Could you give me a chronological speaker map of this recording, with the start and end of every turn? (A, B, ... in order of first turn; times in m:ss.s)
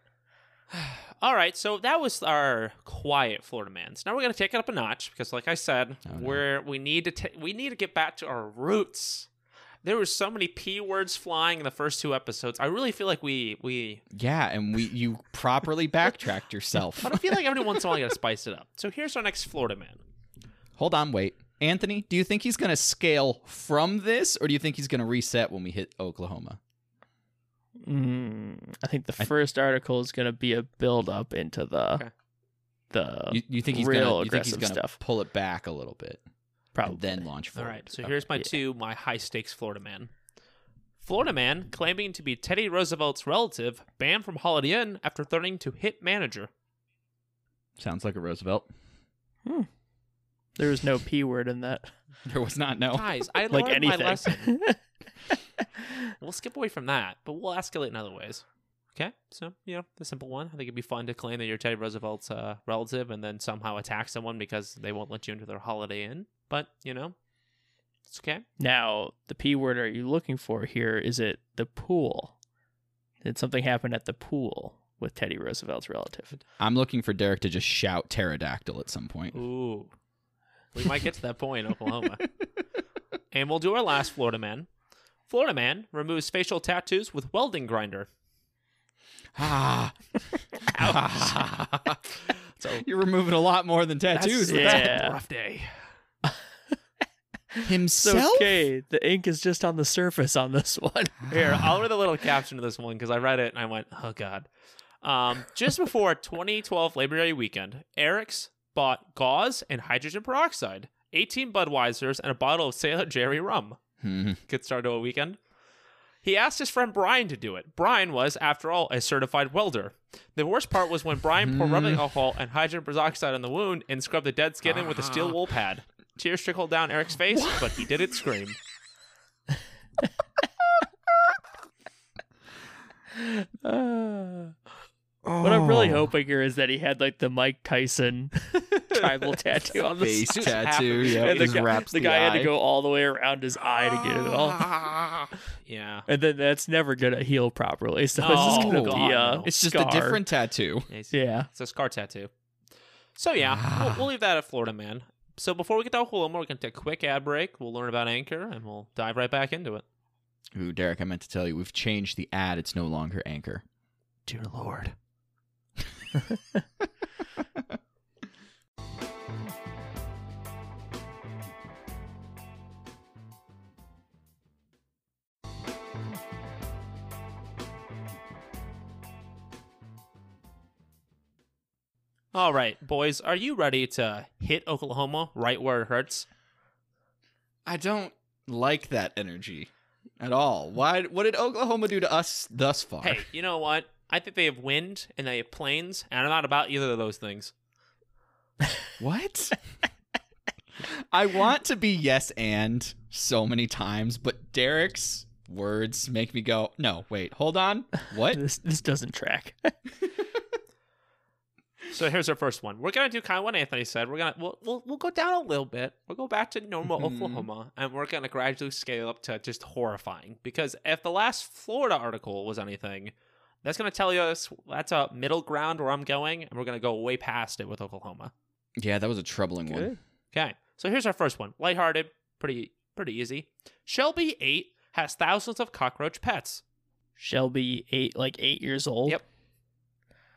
0:00.7-0:09.3 A
0:06.1-0:06.4 B
0:09.8-0:14.0 A
0:14.1-0:17.8 B
0:17.0-0:20.0 A
0:20.8-0:26.6 B
0:27.8-0:32.0 C
0:32.9-0:35.0 C
0:33.3-0:36.2 B
0:36.8-0:37.3 C
0:36.8-0:38.2 B
0:37.6-0:40.1 A
0:41.0-0:46.5 A
0:47.8-0:48.7 B
0:50.6-0:51.9 C
0:52.2-0:53.0 B
0:52.9-0:54.5 A
0:53.5-0:54.8 C
0:56.2-0:58.4 A
0:59.0-1:07.2 A
1:08.1-1:08.4 A
1:08.6-1:12.4 C
1:13.2-1:16.4 C
1:16.6-1:19.4 B
1:19.3-1:19.9 A
1:20.7-1:22.2 A
1:23.3-1:24.7 A
1:25.3-1:28.1 A
1:29.4-1:30.1 B
1:30.7-1:31.4 A
1:30.7-1:32.2 B
1:32.6-1:32.8 A
1:32.7-1:35.0 B
1:34.1-1:35.8 A
1:34.5-1:35.2 C
1:37.5-1:41.3 C
1:37.6-1:38.7 B
1:41.3-1:44.5 A
1:45.0-1:53.8 A
1:54.0-1:54.4 B
1:54.5-1:55.4 A
1:56.2-2:08.6 A
2:01.4-2:02.0 B
2:04.7-2:05.4 B
2:07.3-2:07.7 B
2:13.2-2:14.6 C
2:15.2-2:16.1 B
2:15.4-2:20.6 C
2:20.0-2:22.5 B
2:20.2-2:21.7 A
2:21.1-2:24.8 C
2:24.0-2:25.3 B
2:25.6-2:26.1 A
2:26.1-2:30.2 C
2:28.2-2:29.5 A
2:28.3-2:30.9 B
2:30.9-2:32.3 A
2:31.1-2:31.5 C
2:33.2-2:39.8 A
2:33.4-2:34.1 B
2:40.6-2:43.6 B
2:44.3-2:45.0 A
3:02.3-3:06.3 A
3:07.7-3:13.2 B
3:13.0-3:17.5 A
3:19.0-3:19.6 B
3:20.8-3:28.4 B
3:28.2-3:29.7 C
3:31.9-3:48.3 A
3:36.9-3:37.5 B
3:48.8-3:49.9 B
3:49.7-3:50.0 C
3:50.3-3:56.6 A
3:57.2-3:59.2 C